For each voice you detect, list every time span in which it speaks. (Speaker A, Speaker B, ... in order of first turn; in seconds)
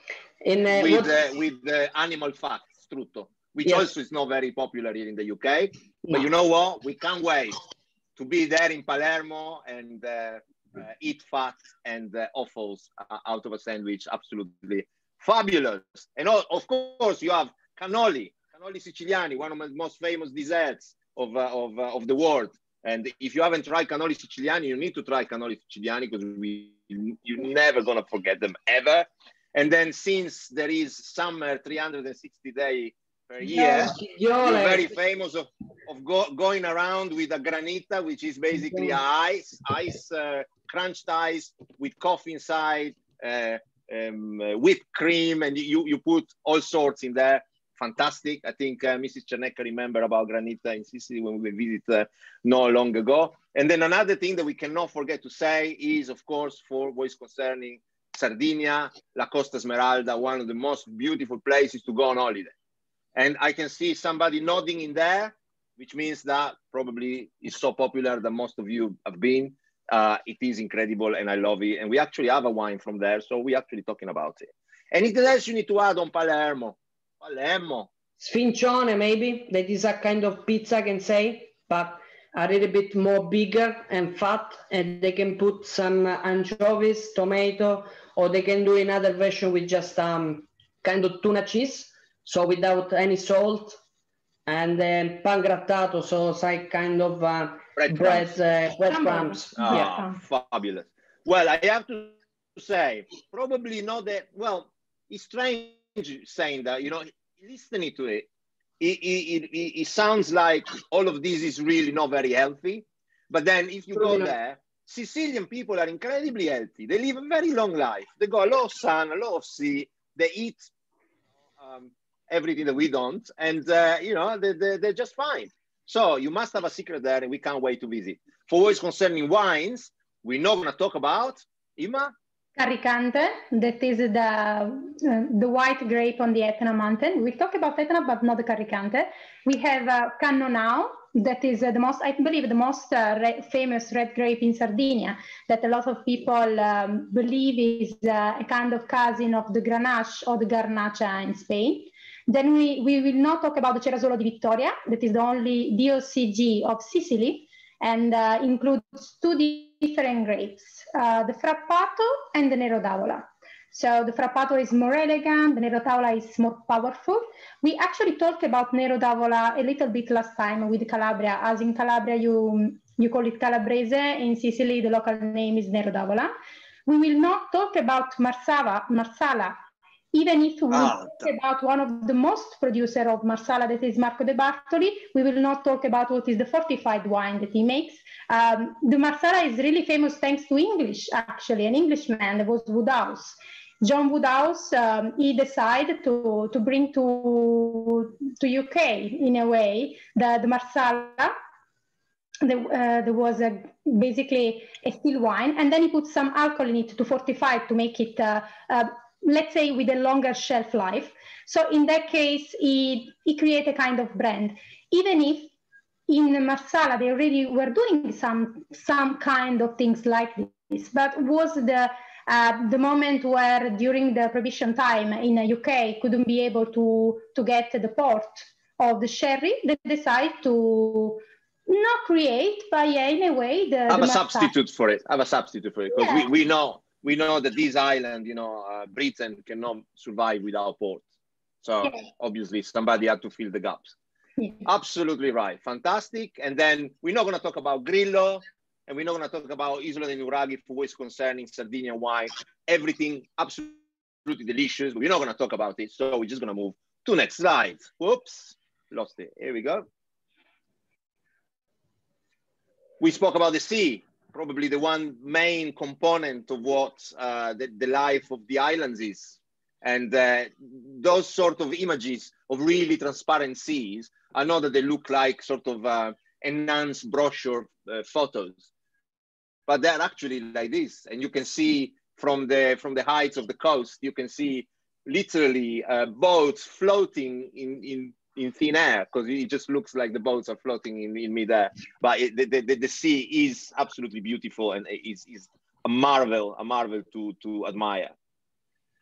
Speaker A: 0.4-1.2, 33.4-34.9, 38.6-39.0, 78.2-93.8, 94.5-99.9, 113.9-114.3
Speaker B: 0.8-7.6, 8.2-62.5, 63.1-77.9, 97.8-98.3, 99.6-108.3, 108.8-120.7, 121.6-132.1, 180.7-181.3, 233.9-241.0, 241.6-243.9, 244.7-259.9, 263.0-278.7, 279.7-298.1
Speaker C: 98.8-100.2, 132.6-176.3, 176.9-179.6, 180.1-201.3, 202.4-215.5, 216.1-234.5, 236.0-236.2, 244.4-244.6